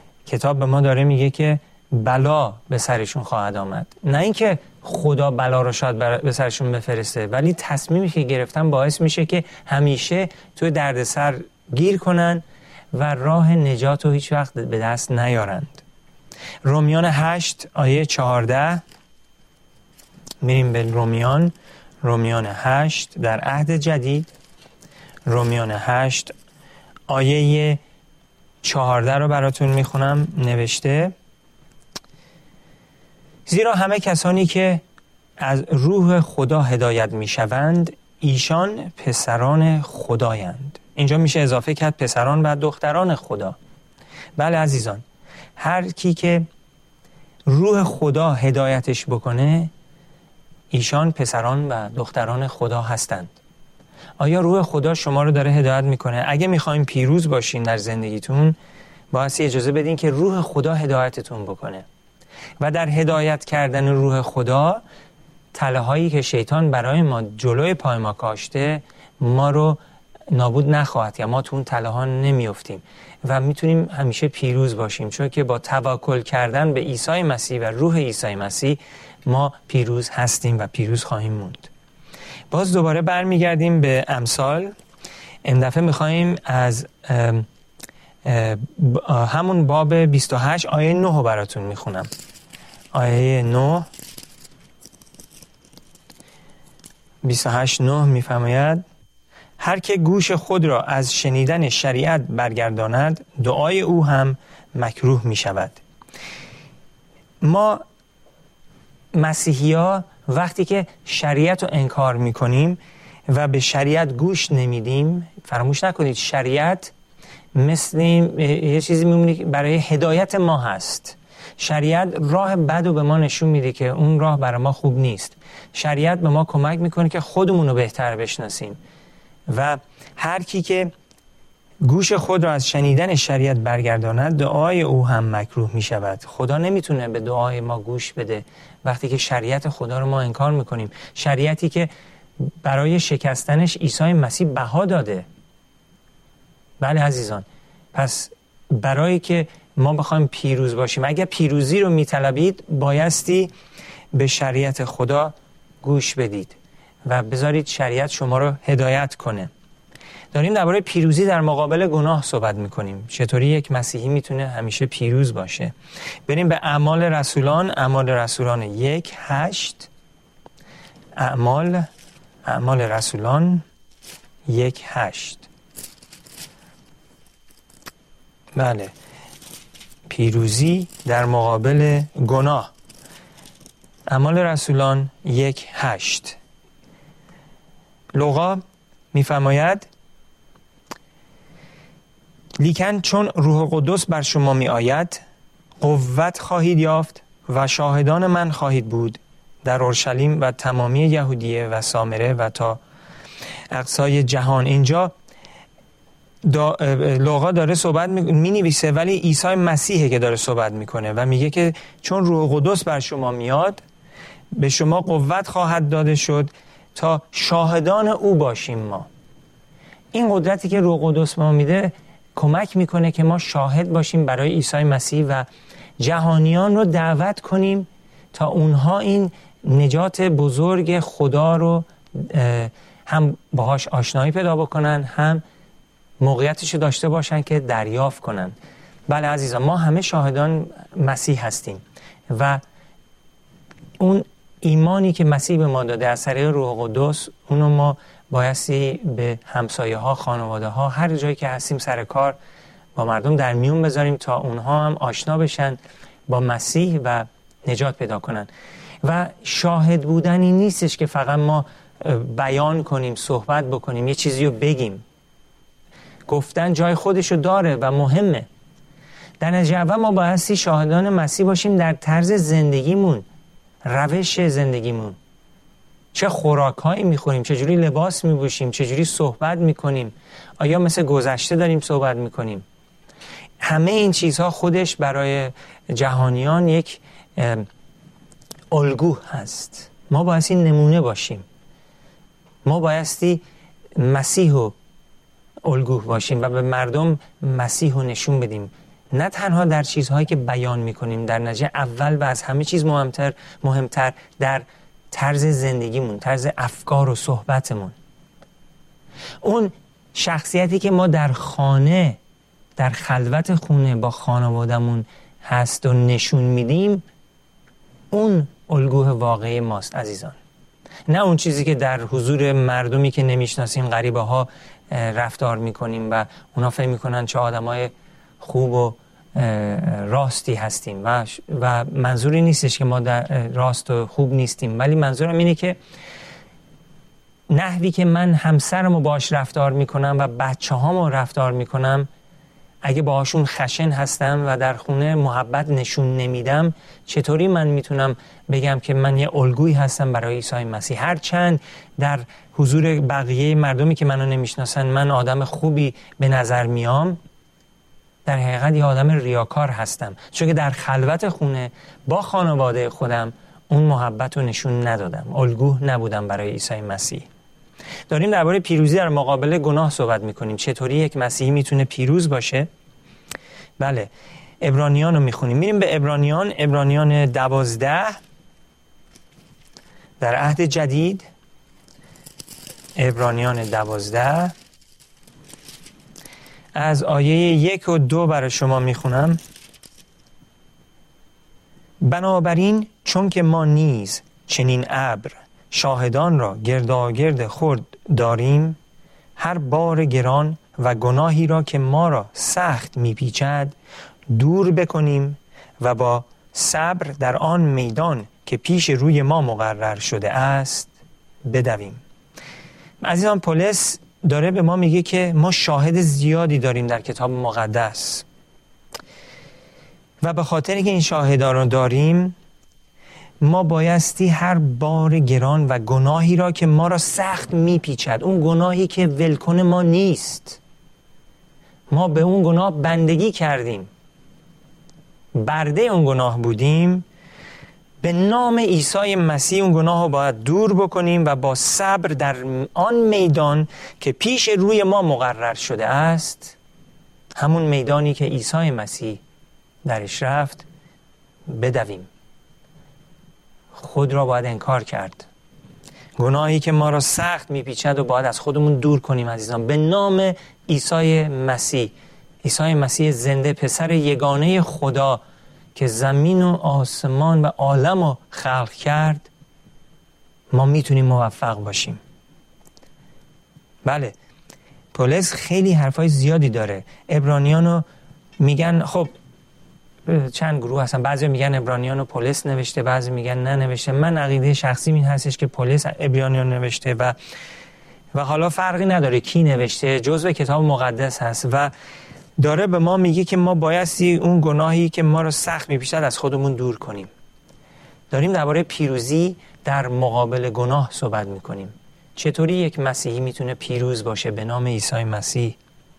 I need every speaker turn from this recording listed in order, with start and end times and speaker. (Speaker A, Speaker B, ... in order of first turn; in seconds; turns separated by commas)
Speaker A: 0.2-15.8, Speaker A: 16.6-18.8, Speaker A: 20.4-24.3, Speaker A: 25.3-26.3, Speaker A: 27.1-27.8, Speaker A: 28.6-31.1, Speaker A: 33.5-34.8, Speaker A: 35.4-43.6, Speaker A: 44.4-45.0, Speaker A: 45.6-46.5, Speaker A: 47.5-49.7, Speaker A: 50.7-53.4, Speaker A: 54.2-58.5, Speaker A: 59.1-61.9, Speaker A: 62.6-64.8, Speaker A: 65.5-69.8, Speaker A: 70.3-81.7, Speaker A: 82.5-84.7, Speaker A: 85.4-87.5, Speaker A: 88.2-92.1, Speaker A: 92.9-93.9, Speaker A: 97.2-98.8, Speaker A: 99.6-105.8, Speaker A: 107.4-107.8, Speaker A: 109.1-116.9, Speaker A: 117.5-128.8, Speaker A: 129.5-130.9, Speaker A: 131.8-141.9, Speaker A: 142.6-145.3, Speaker A: 146.8-153.5, Speaker A: 154.1-159.5, Speaker A: 160.3-165.7, Speaker A: 166.3-169.9, Speaker A: 171.2-171.9, Speaker A: 172.4-173.6, Speaker A: 174.5-175.5, Speaker A: 178.6-178.9, Speaker A: 180.1-182.7, Speaker A: 184.1-186.4, Speaker A: 188.1-188.6, Speaker A: 189.1-189.9, Speaker A: 192.6-195.2, Speaker A: 195.8-202.8, Speaker A: 203.7-205.1, Speaker A: 206.4-213.8, Speaker A: 214.5-219.1, Speaker A: 220.1-225.4, Speaker A: 226.0-235.4, Speaker A: 236.2-238.6, Speaker A: 239.1-242.6, Speaker A: 244.0-252.4, Speaker A: 252.9-258.5, Speaker A: 259.0-265.0, Speaker A: 266.3-268.5, Speaker A: 269.4-273.2, Speaker A: 273.8-275.2, Speaker A: 276.1-282.6, Speaker A: 283.6-287.7, Speaker A: 288.7-291.4, Speaker A: 292.6-293.4, Speaker A: 293.9-294.7, Speaker A: 295.6-307.9, Speaker A: 309.4-312.2, Speaker A: 312.8-317.0, Speaker A: 318.1-320.4, Speaker A: 321.1-335.8, Speaker A: 337.5-342.1, Speaker A: 342.8-357.2, Speaker A: 358.2-367.3, Speaker A: 368.1-372.7, Speaker A: 373.8-374.1, Speaker A: 374.6-378.2, Speaker A: 380.2-381.2, Speaker A: 383.0-384.5, Speaker A: 386.7-389.4, Speaker A: 392.0-398.8, Speaker A: 399.4-403.8, Speaker A: 404.3-410.9, Speaker A: 411.4-412.0, Speaker A: 413.0-418.2, Speaker A: 420.2-422.3, Speaker A: 423.4-430.6, Speaker A: 431.9-433.9, Speaker A: 435.3-437.0, Speaker A: 438.0-446.6, Speaker A: 447.4-449.2, Speaker A: 449.8-450.6, Speaker A: 451.5-452.1, Speaker A: 453.7-455.3, Speaker A: 456.2-465.2, Speaker A: 465.7-469.3, Speaker A: 470.5-472.0, Speaker A: 473.8-474.1, Speaker A: 474.9-477.8, Speaker A: 478.4-479.1, Speaker A: 480.1-487.1, Speaker A: 488.1-491.7, Speaker A: 492.4-497.1, Speaker A: 498.1-505.6